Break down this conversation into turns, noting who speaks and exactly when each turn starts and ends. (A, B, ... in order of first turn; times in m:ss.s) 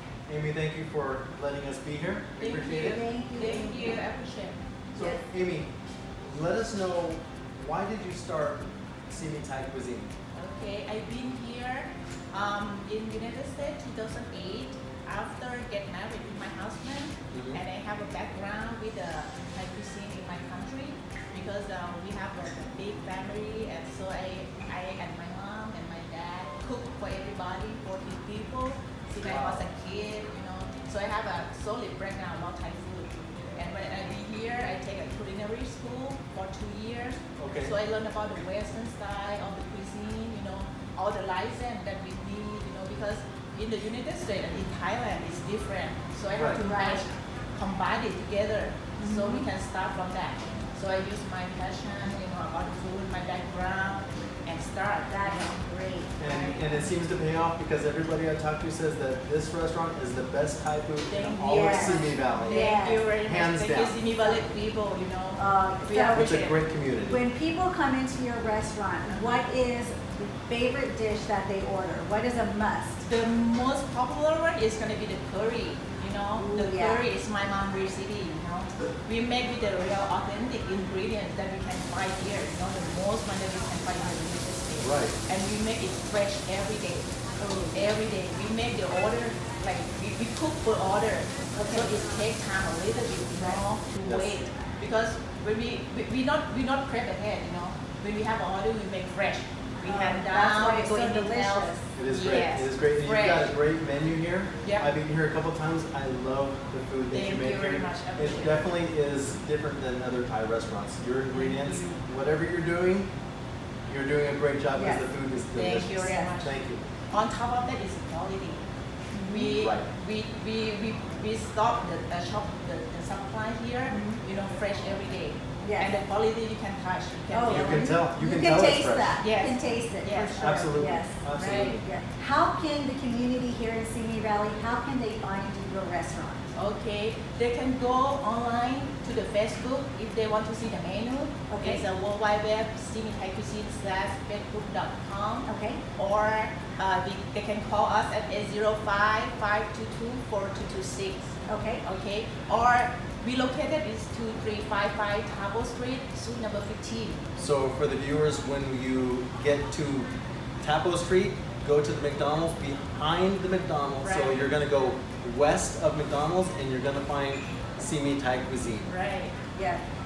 0:00.3-0:03.0 A
0:02.4-0:04.6 B
0:02.8-0:04.0 C
0:04.9-0:05.7 A
0:05.0-0:05.2 C
0:06.2-0:10.1 A
0:10.3-0:55.6 B
0:17.3-0:17.6 A
0:29.2-0:29.6 A
0:37.4-0:37.7 A
0:46.3-0:46.6 A
0:46.6-0:47.0 C
0:49.0-0:49.5 C
0:55.1-0:56.2 C
0:56.2-0:56.9 B
0:56.2-1:04.0 A
1:01.1-1:06.6 B
1:01.4-1:03.1 C
1:04.2-1:04.4 C
1:05.4-1:06.4 C
1:06.1-1:07.2 A
1:07.0-1:13.0 C
1:09.0-1:09.4 B
1:13.0-1:27.1 B
1:16.4-1:17.0 C
1:24.8-1:25.2 A
1:27.4-1:27.8 C
1:27.7-1:43.5 B
1:31.6-1:31.9 C
1:34.0-1:34.4 A
1:39.8-1:41.9 C
1:41.9-1:53.1 A
1:44.6-1:44.9 B
1:47.1-1:48.7 B
1:51.3-1:52.0 B
1:53.9-1:56.8 A
1:54.7-1:55.1 C
1:55.5-1:56.6 B
1:56.0-1:56.3 C
1:57.1-1:58.6 B
1:59.1-1:59.6 C
1:59.3-2:07.9 B
1:59.5-1:59.9 A
2:03.9-2:04.2 C
2:05.6-2:06.0 C
2:07.3-2:16.5 C
2:07.5-2:09.2 A
2:09.2-2:10.6 B
2:10.4-2:11.8 A
2:11.3-2:11.8 B
2:16.5-2:37.2 B
2:21.5-2:21.8 C
2:25.4-2:25.8 C
2:31.5-2:31.8 C
2:37.4-2:40.1 A
2:40.6-2:48.9 A
2:44.0-2:44.4 B
2:48.9-2:49.3 B
2:49.5-2:49.8 C